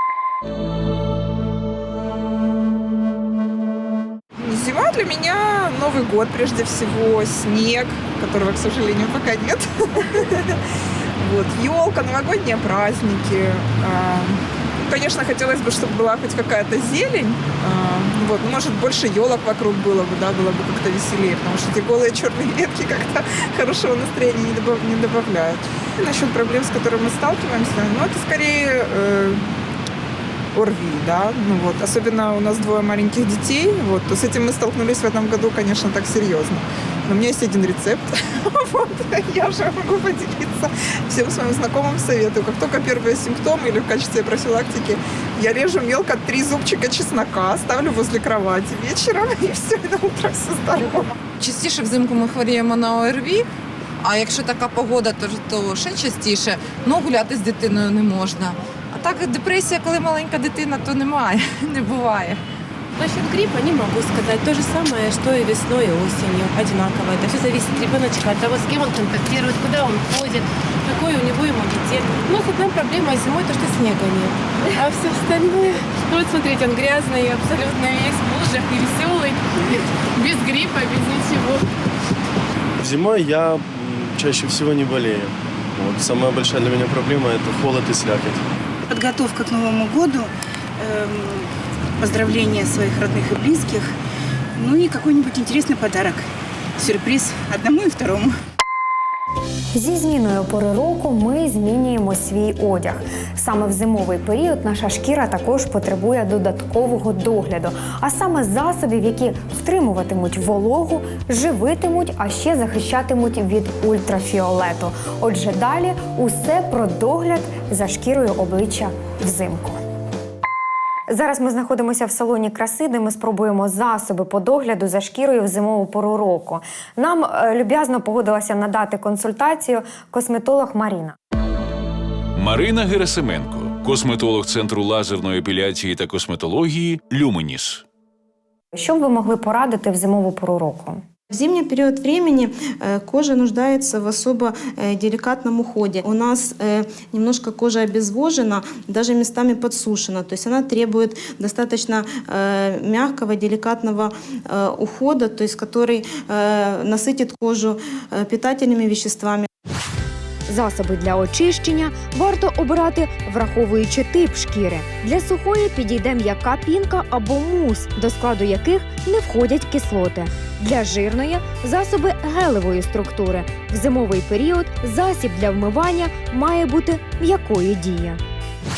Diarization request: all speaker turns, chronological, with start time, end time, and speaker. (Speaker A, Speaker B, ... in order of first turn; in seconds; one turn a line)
Speaker A: 4.4-10.6
Speaker A: 11.2-29.5
Speaker A: 30.5-51.1
Speaker B: 51.4-53.5
Speaker B: 54.0-62.4
Speaker C: 63.0-81.7
Speaker D: 82.8-88.4
Speaker E: 88.9-93.9
Speaker E: 94.5-96.2
Speaker E: 96.8-98.3
Speaker F: 99.7-119.8
Speaker F: 121.1-131.2
Speaker G: 132.3-137.8
Speaker F: 138.7-141.0
Speaker H: 141.3-159.5
Speaker F: 160.5-178.2